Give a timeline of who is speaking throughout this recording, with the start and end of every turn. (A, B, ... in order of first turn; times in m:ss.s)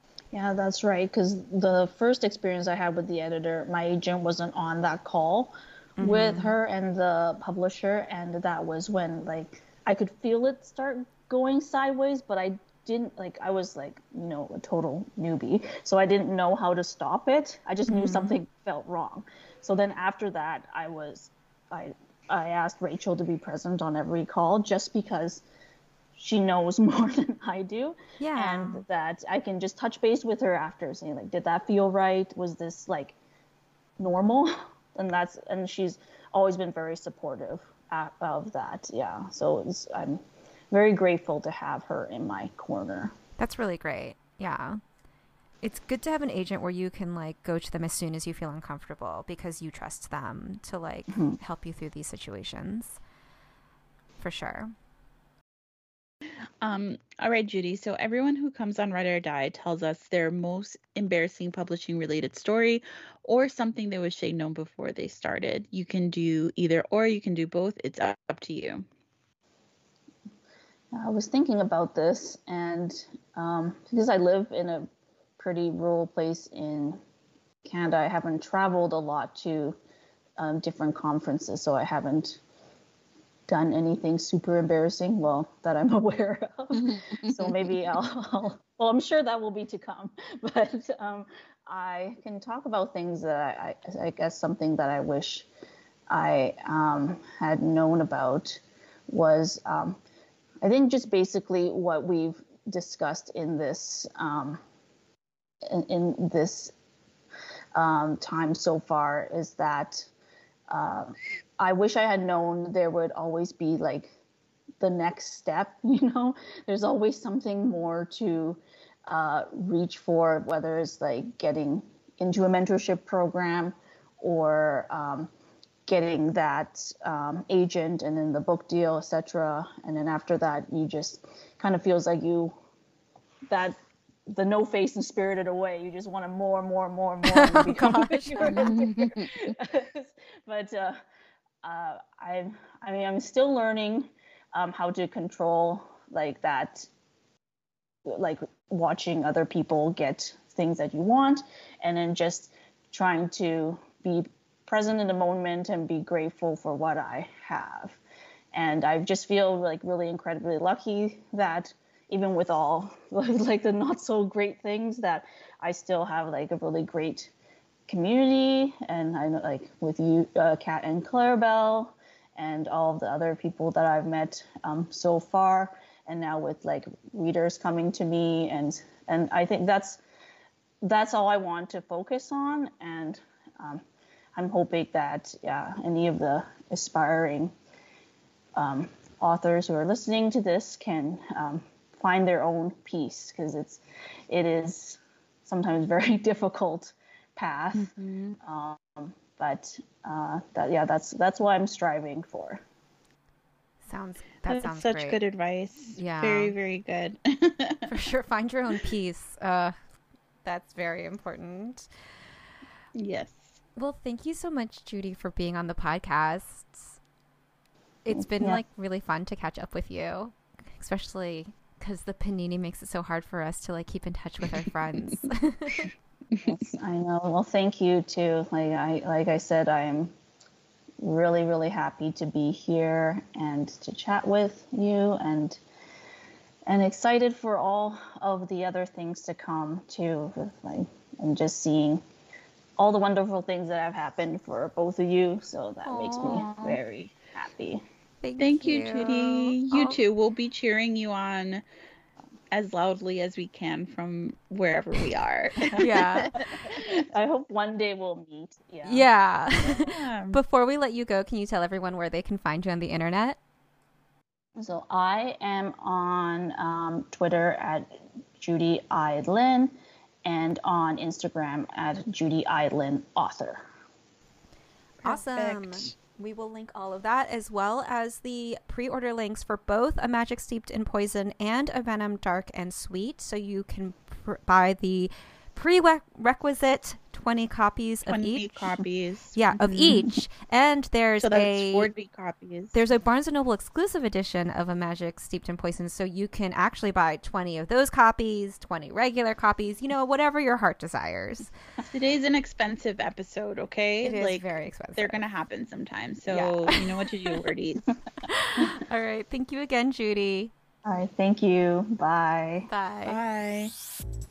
0:00.3-0:25.4 A
0:06.0-0:06.5 B
0:17.9-0:18.4 B
0:26.2-0:33.1 A
0:28.2-0:28.8 B
0:34.0-0:43.1 A
0:43.4-0:44.8 B
0:45.6-0:53.0 B
0:54.2-0:54.7 B
0:56.6-1:08.8 C
1:10.9-1:17.0 A
1:17.6-1:19.8 A
1:20.4-1:22.4 A
1:23.5-1:35.5 A
1:26.9-1:27.7 C
1:36.1-1:40.0 A
1:40.6-1:44.6 A
1:45.7-1:46.7 A
1:47.7-1:50.1 A
1:50.7-1:54.1 A
1:54.8-2:05.3 A
2:05.9-2:12.5 A
2:13.5-2:13.8 A
2:14.3-2:21.0 A
2:17.3-2:18.9 B
2:18.4-2:19.4 C
2:21.6-2:26.9 A
2:28.1-2:38.0 A
2:38.5-2:47.3 A
2:47.9-3:00.0 A
3:00.8-3:03.8 A
3:04.4-3:07.5 A
3:08.6-3:17.9 A
3:17.8-3:18.4 C
3:18.4-3:22.6 A
3:23.8-3:25.2 B
3:24.5-3:27.9 C
3:26.0-3:26.5 B
3:27.9-3:29.8 B
3:30.4-3:31.9 B
3:33.0-3:33.6 C
3:33.8-3:37.0 B
3:38.1-3:45.9 B
3:38.2-3:38.6 A
3:46.4-3:50.1 A
3:51.0-3:55.6 A
3:56.7-4:02.0 A
4:02.8-4:07.8 A
4:05.8-4:06.8 B
4:08.2-4:10.0 B
4:08.4-4:11.6 C
4:12.5-4:16.9 C
4:15.7-4:16.4 B
4:16.4-4:19.1 A
4:18.8-4:23.4 B
4:19.6-4:20.4 C
4:24.6-4:29.7 A
4:30.2-4:33.6 A
4:35.0-4:35.9 C
4:35.0-4:48.8 B
4:48.1-4:50.2 C
4:49.4-4:51.9 B
4:51.2-4:52.8 C
4:52.7-5:01.5 B
5:01.8-5:07.9 C
5:04.0-5:05.2 B
5:06.3-5:07.4 B
5:08.2-5:10.5 B
5:10.8-5:12.7 A
5:12.7-5:13.2 B
5:13.1-5:13.7 C